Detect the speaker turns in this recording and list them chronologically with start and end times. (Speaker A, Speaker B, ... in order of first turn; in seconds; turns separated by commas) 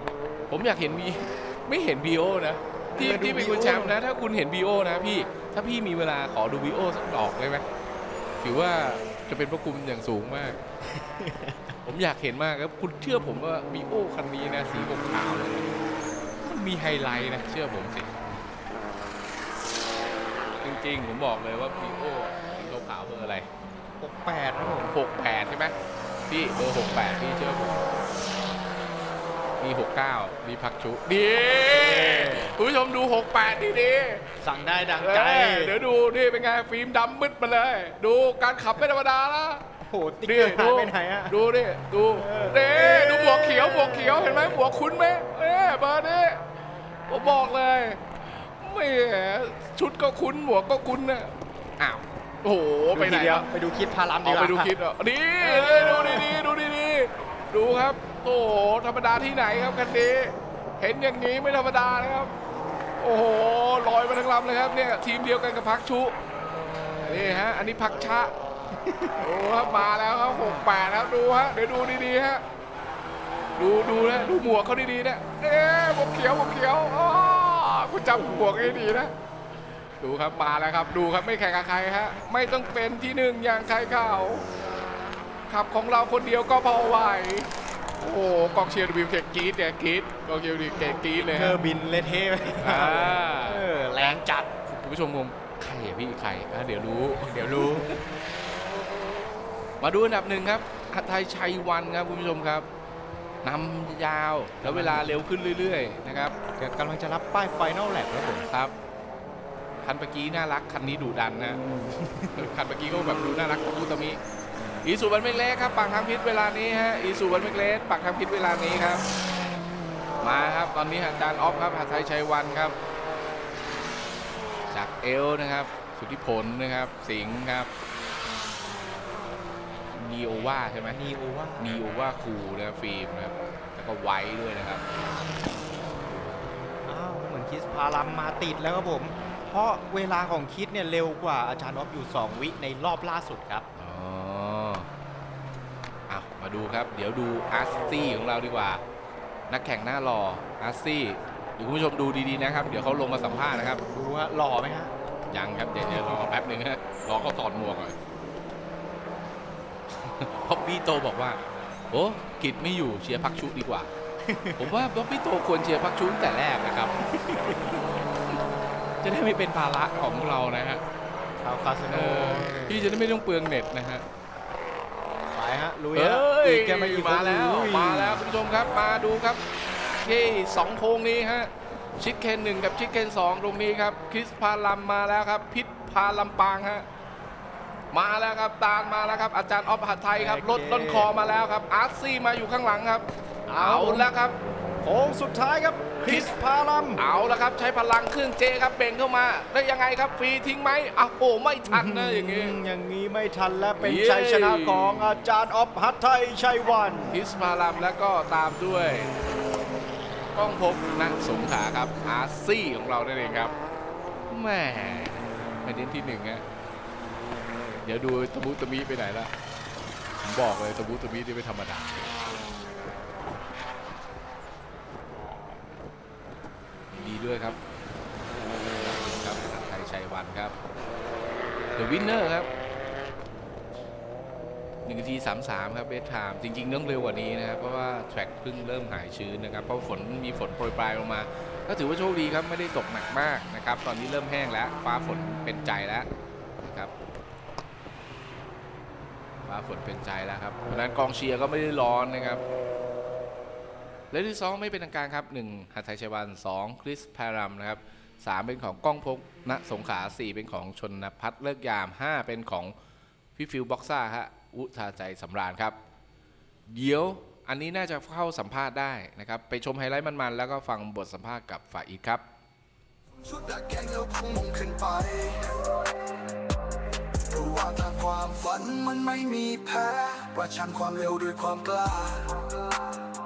Speaker A: 0.5-7.6, Speaker B: 2.9-4.0, Speaker A: 8.4-10.6, Speaker B: 10.9-11.7, Speaker A: 11.8-15.7, Speaker A: 16.4-18.1, Speaker A: 20.6-23.5, Speaker B: 24.0-24.9, Speaker A: 24.8-25.7, Speaker A: 26.3-27.8, Speaker A: 29.6-34.3, Speaker B: 31.6-32.6, Speaker B: 34.4-35.8, Speaker A: 35.0-39.7, Speaker B: 39.8-41.4, Speaker A: 40.2-46.5, Speaker B: 42.1-44.7, Speaker A: 47.1-53.5, Speaker B: 52.9-54.8, Speaker A: 54.2-62.3, Speaker B: 55.4-56.5, Speaker A: 63.0-66.1, Speaker A: 67.0-68.3, Speaker B: 68.7-69.2, Speaker A: 69.2-72.4, Speaker A: 73.6-79.1, Speaker A: 80.0-84.5, Speaker A: 85.5-91.6, Speaker B: 91.2-94.5, Speaker A: 92.5-93.6, Speaker A: 94.6-98.0, Speaker B: 97.2-97.9, Speaker A: 99.8-102.7, Speaker A: 103.4-106.3, Speaker B: 104.6-105.2, Speaker B: 106.6-108.5, Speaker A: 108.5-108.7, Speaker A: 109.8-111.6, Speaker B: 111.7-112.5, Speaker A: 112.3-114.2, Speaker A: 114.8-119.0, Speaker A: 120.2-122.7, Speaker A: 124.7-127.7, Speaker A: 129.9-131.0, Speaker B: 130.9-131.8, Speaker A: 131.6-134.8, Speaker A: 136.0-136.5, Speaker B: 136.8-143.7, Speaker A: 143.8-144.9, Speaker A: 146.1-148.8, Speaker A: 149.5-153.8, Speaker B: 153.9-154.9, Speaker A: 155.3-157.9, Speaker B: 155.9-156.3, Speaker A: 160.0-161.4, Speaker A: 161.9-163.9, Speaker B: 164.2-164.8, Speaker A: 164.6-168.4, Speaker B: 167.1-167.6, Speaker A: 169.0-170.8, Speaker B: 171.4-172.6, Speaker A: 171.9-174.0, Speaker B: 175.3-178.2, Speaker A: 175.9-179.4, Speaker A: 179.9-186.8, Speaker A: 187.9-193.1, Speaker B: 190.1-191.1, Speaker B: 193.5-194.1, Speaker A: 193.6-194.4, Speaker B: 194.8-197.0, Speaker A: 196.0-196.3, Speaker A: 197.0-202.6, Speaker B: 201.7-207.2, Speaker A: 203.8-205.2, Speaker A: 207.1-209.1, Speaker A: 210.3-213.5, Speaker A: 214.3-216.4, Speaker A: 217.8-219.3, Speaker A: 220.2-222.2, Speaker A: 226.9-227.6, Speaker A: 228.8-230.5, Speaker A: 231.8-232.5, Speaker A: 234.8-246.1, Speaker A: 246.6-246.9, Speaker A: 249.4-252.4, Speaker A: 254.1-262.7, Speaker A: 263.4-265.8, Speaker A: 266.7-272.2, Speaker C: 273.2-275.8, Speaker C: 277.3-282.7